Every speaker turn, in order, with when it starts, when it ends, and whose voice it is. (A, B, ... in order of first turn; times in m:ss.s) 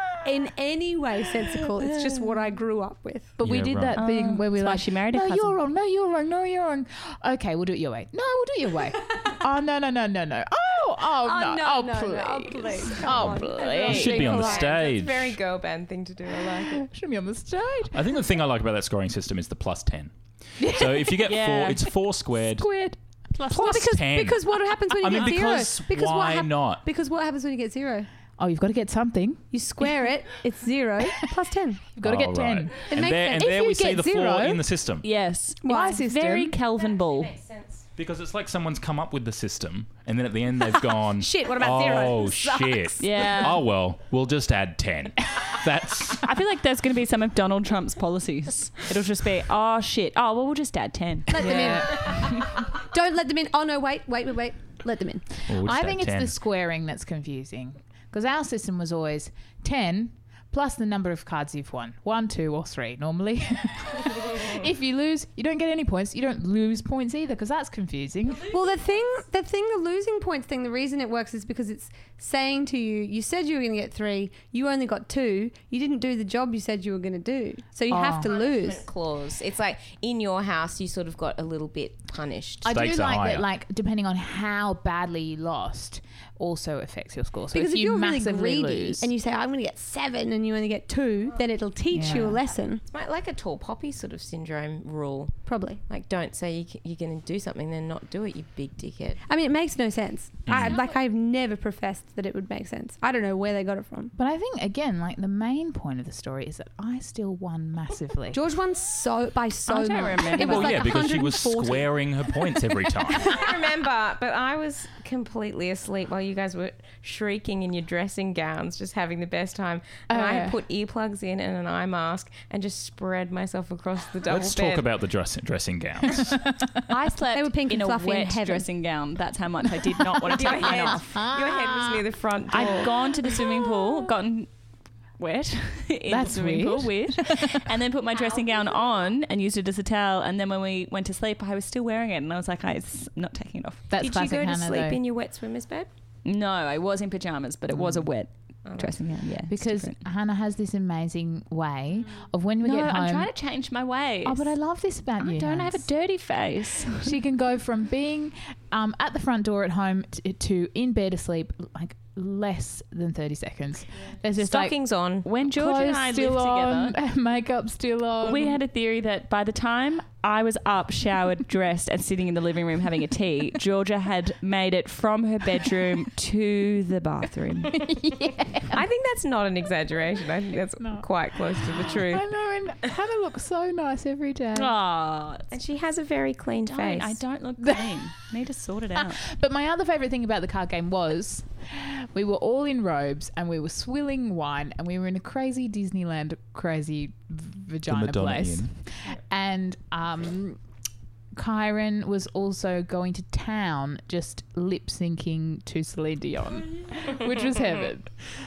0:00.2-0:03.3 A
0:01.7-0:02.1 B
0:03.4-0:14.7 B
0:03.4-0:04.0 C
0:04.0-0:05.6 D
0:11.2-0:14.7 A
0:13.7-0:16.8 E
0:13.9-0:15.4 C
0:16.3-0:18.1 B
0:17.9-0:22.7 C
0:20.6-0:21.3 B
0:21.2-0:22.0 D
0:22.4-0:23.9 B
0:23.5-0:26.8 C
0:23.5-0:28.1 A
0:28.4-0:29.5 B
0:29.5-0:31.9 A
0:32.0-0:34.6 B
0:32.0-0:35.1 C
0:32.9-0:33.6 A
0:35.0-0:37.3 D
0:35.6-0:36.1 A
0:35.6-0:36.6 B
0:36.8-0:37.9 E
0:38.0-0:46.3 C
0:40.8-0:43.1 A
0:43.0-0:43.6 D
0:46.2-0:51.8 D
0:51.3-0:55.2 A
0:51.4-0:52.4 B
0:55.5-0:56.4 C
0:55.5-1:08.5 B
1:08.4-1:18.8 A
1:17.9-1:18.3 B
1:18.2-1:22.8 E
1:22.6-1:29.1 B
1:22.7-1:23.5 C
1:27.5-1:32.8 A
1:31.9-1:32.4 B
1:32.1-1:39.2 E
1:35.5-1:35.8 A
1:39.3-1:44.1 A
1:40.5-1:40.8 C
1:44.2-1:48.4 B
1:48.3-1:52.0 A
1:49.7-1:50.9 D
1:50.4-1:53.4 C
1:53.2-2:04.9 E
2:00.1-2:00.6 B
2:04.3-2:06.5 C
2:06.2-2:06.7 B
2:06.9-2:11.1 D
2:07.3-2:08.7 A
2:10.3-2:12.9 E
2:10.4-2:12.0 B
2:12.5-2:14.5 D
2:12.6-2:12.9 B
2:15.2-2:23.9 D
2:16.1-2:17.6 B
2:18.1-2:19.0 E
2:23.9-2:25.0 B
2:24.0-2:25.9 E
2:26.2-2:30.0 D
2:27.7-2:28.1 B
2:28.7-2:29.0 E
2:29.3-2:33.3 B
2:32.6-2:34.5 D
2:34.2-2:35.9 B
2:35.2-2:37.2 D
2:37.0-2:44.7 B
2:44.4-2:45.3 E
2:45.2-2:47.0 D
2:45.4-2:48.6 B
2:48.2-2:57.9 D
2:57.7-2:58.8 B
2:58.7-3:02.3 E
3:00.8-3:04.7 B
3:04.5-3:05.5 D
3:05.5-3:07.2 E
3:06.7-3:09.2 D
3:09.0-3:20.6 B
3:17.9-3:18.7 C
3:21.3-3:28.2 B